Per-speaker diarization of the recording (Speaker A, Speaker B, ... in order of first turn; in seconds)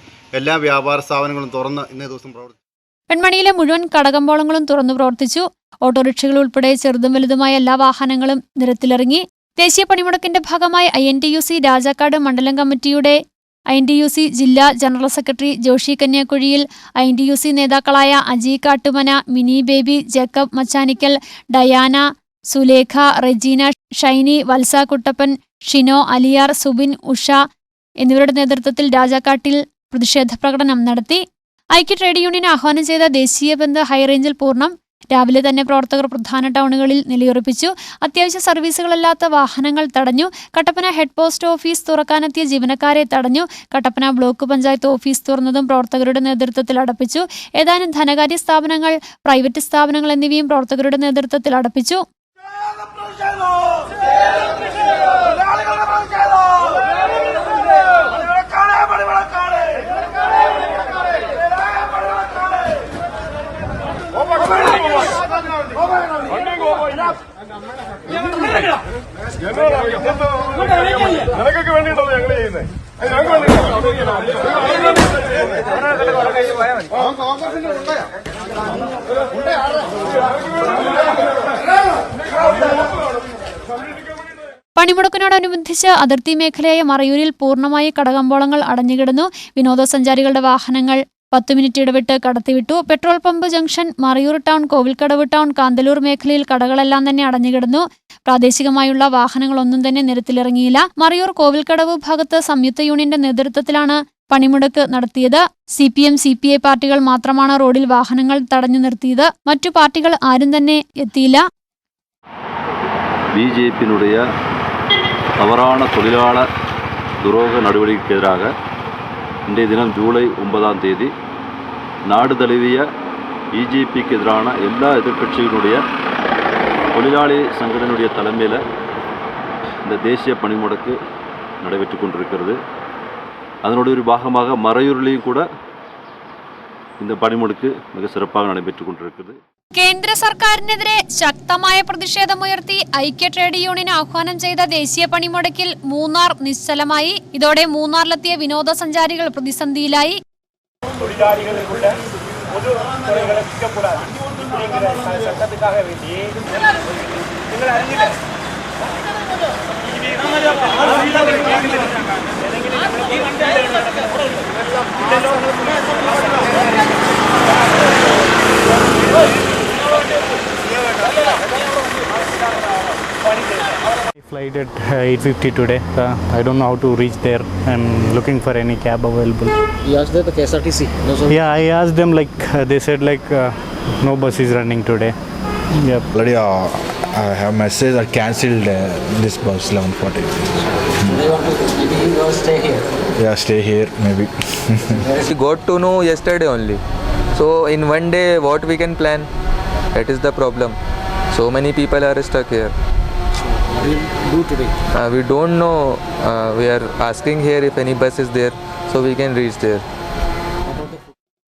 Speaker A: 0.3-2.6
Speaker B: 3.1-13.2, 13.7-27.4, 28.0-31.2, 31.8-52.0, 84.8-111.4, 139.7-150.2
Speaker C: 113.3-114.2, 115.4-116.5, 117.2-118.5, 119.5-121.1, 122.1-122.8, 123.5-125.8, 126.9-128.6, 129.8-131.0, 131.6-132.6, 133.6-135.5, 137.0-139.4
Speaker D: 174.2-179.6, 181.2-185.1, 185.8-186.1
Speaker E: 180.4-181.3, 191.3-192.8, 203.8-204.7
Speaker F: 186.1-191.2, 193.2-195.1
Speaker G: 195.2-196.8, 197.3-199.3, 199.9-200.8, 201.3-202.7, 204.9-209.8